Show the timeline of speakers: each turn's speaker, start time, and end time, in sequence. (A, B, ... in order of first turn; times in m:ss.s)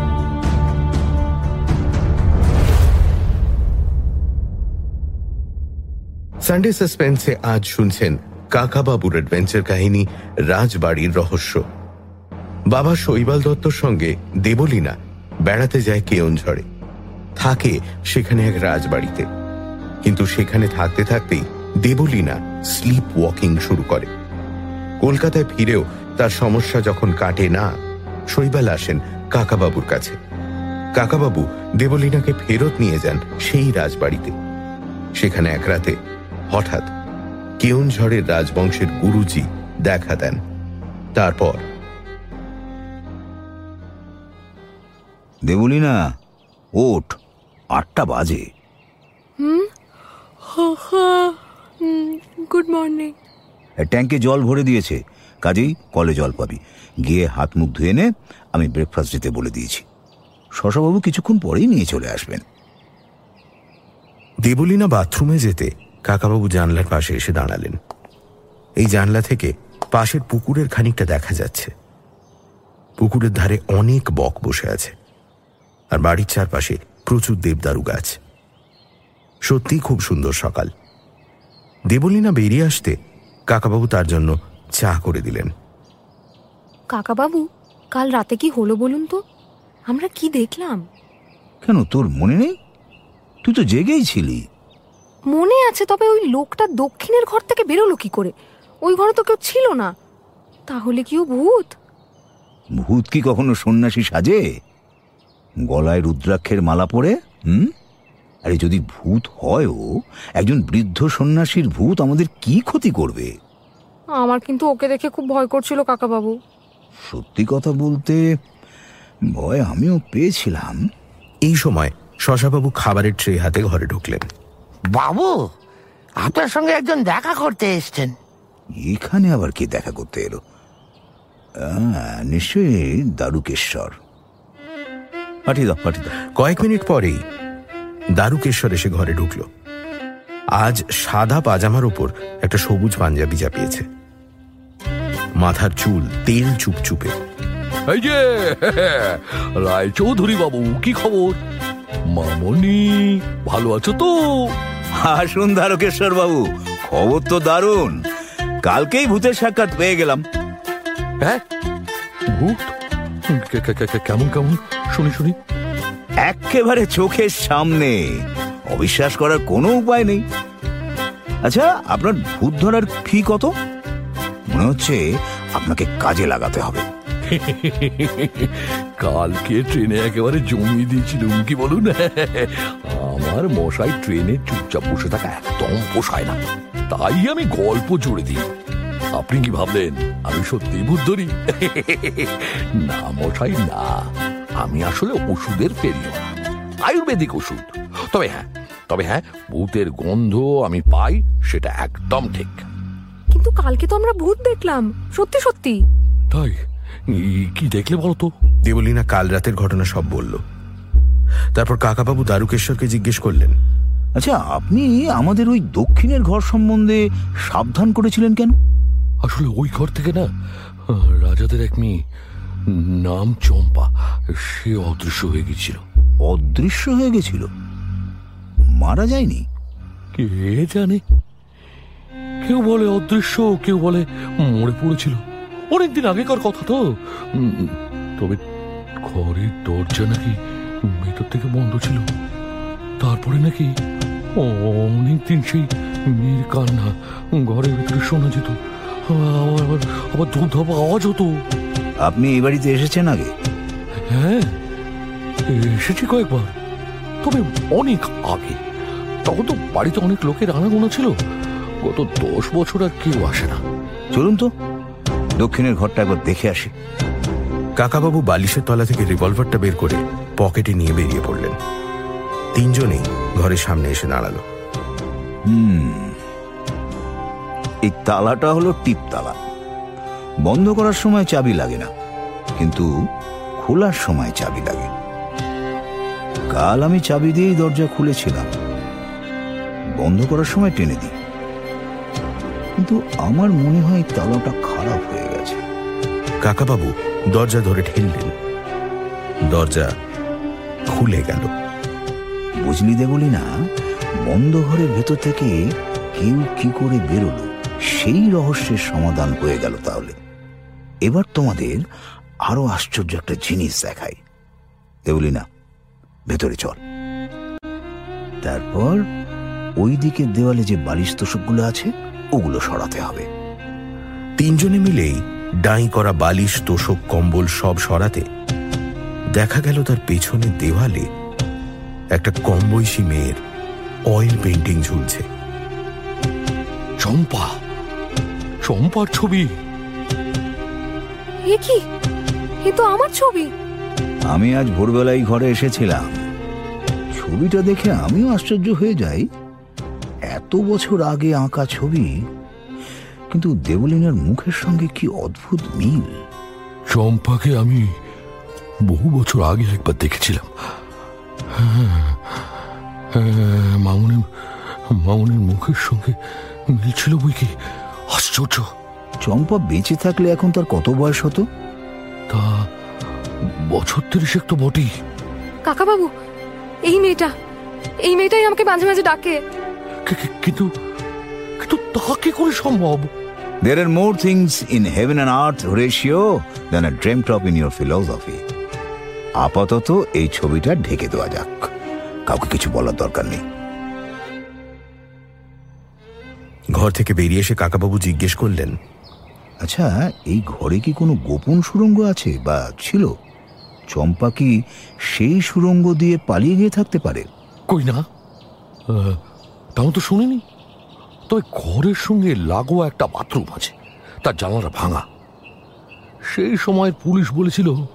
0:06.4-0:11.6 A
0:12.7-0:14.9 A
0:15.4-0:16.6 A
0:17.4-0:19.3 A
0:20.0-0:24.1 A
0:25.0-0:27.7 A
0:28.3-0:30.2 A
0:31.0-0:34.3 A
0:35.2-0:36.0 A
0:36.5-0:36.9 A
0:37.6-0:40.4 A
0:41.2-0:41.6 A
0:45.4-0:46.0 B
0:46.8-0:47.2 B
0:47.7-0:48.4 B
0:49.4-0:49.7 C
0:50.5-0:53.1 C
0:53.8-0:59.8 B
1:00.6-1:02.4 B
1:04.4-1:07.8 A
1:08.8-1:11.7 A
1:13.0-1:14.9 A
1:15.9-1:18.2 A
1:19.5-1:20.7 A
1:21.9-1:22.9 A
1:23.5-1:25.5 A
1:26.9-1:29.2 C
1:29.9-1:30.8 C
1:31.6-1:32.5 B
1:33.4-1:34.4 B
1:35.3-1:38.3 C
1:38.8-1:39.9 C
1:40.7-1:41.7 C
1:42.8-1:44.4 B
1:45.6-1:47.7 B
1:48.4-1:49.8 B
1:50.4-1:53.3 B
1:54.2-1:56.3 C
1:57.1-1:58.2 B
1:59.3-2:00.8 B
2:01.4-2:04.2 A
2:04.9-2:05.5 D
2:06.2-2:08.1 D
2:08.8-2:10.4 B
2:11.6-2:14.0 B
2:15.4-2:16.1 B
2:16.3-2:17.2 A
2:18.2-2:19.5 A
2:20.6-2:23.8 A
2:25.4-2:27.1 A
2:27.9-2:31.4 E
2:32.1-2:34.5 E
2:35.0-2:38.0 B
2:38.6-2:40.2 B
2:42.3-2:42.7 E
2:43.3-2:45.4 E
2:46.2-2:48.0 B
2:48.7-2:50.2 B
2:51.4-2:53.5 B
2:54.5-2:55.0 B
2:55.6-2:56.8 B
2:57.3-3:08.4 E
3:09.1-3:16.2 E
3:16.8-3:22.6 E
3:23.3-3:25.8 C
3:26.3-3:26.6 E
3:27.1-3:28.3 E
3:28.6-3:30.4 A
3:31.6-3:33.6 A
3:34.2-3:38.6 B
3:39.2-3:40.3 E
3:40.9-3:42.0 E
3:42.7-3:45.8 E
3:46.2-3:47.5 B
3:48.7-3:49.4 B
3:50.1-3:51.0 E
3:52.4-3:55.2 E
3:55.7-3:58.4 E
3:59.0-4:02.0 E
4:03.0-4:03.7 E
4:04.4-4:11.4 E
4:12.0-4:13.3 B
4:14.1-4:14.6 E
4:15.5-4:16.5 E
4:17.2-4:18.6 E
4:19.2-4:21.1 E
4:21.8-4:23.6 E
4:24.1-4:24.5 B
4:25.4-4:26.7 B
4:27.8-4:31.6 A
4:32.5-4:34.4 A
4:35.5-4:36.2 B
4:37.8-4:39.4 B
4:40.4-4:41.9 B
4:42.6-4:42.9 B
4:43.6-4:44.9 B
4:46.5-4:48.5 B
4:50.0-4:51.1 B
4:52.8-4:55.6 B
4:56.4-4:58.3 A
4:59.5-4:59.9 A
5:00.9-5:01.5 A
5:02.6-5:03.5 B
5:04.2-5:05.5 B
5:06.2-5:10.2 B
5:11.0-5:11.8 B
5:12.5-5:14.2 B
5:15.0-5:15.4 B
5:16.3-5:16.8 B
5:18.4-5:19.0 B
5:19.8-5:23.3 B
5:24.4-5:28.2 A
5:29.3-5:31.1 A
5:32.1-5:33.4 A
5:34.1-5:35.2 A
5:37.0-5:37.5 E
5:38.6-5:39.4 E
5:41.5-5:41.8 C
5:42.6-5:43.5 C
5:44.3-5:46.1 B
5:47.1-5:49.3 B
5:50.3-5:52.1 B
5:53.3-5:56.1 B
5:56.9-5:57.8 E
5:58.9-6:00.5 E
6:01.5-6:02.5 E
6:03.1-6:06.1 E
6:06.7-6:07.5 E
6:08.1-6:08.6 E
6:09.2-6:11.4 B
6:12.3-6:12.7 E
6:13.4-6:14.9 E
6:15.6-6:16.1 C
6:16.8-6:17.3 C
6:18.0-6:19.4 C
6:20.0-6:20.7 E
6:21.6-6:23.1 E
6:23.6-6:28.4 B
6:29.4-6:31.7 B
6:32.3-6:33.4 B
6:36.8-6:38.8 A
6:39.6-6:43.1 B
6:43.9-6:44.5 B
6:45.1-6:47.3 B
6:47.7-6:48.0 E
6:48.9-6:49.2 E
6:49.8-6:50.4 E
6:51.3-6:55.0 E
6:56.3-6:57.8 E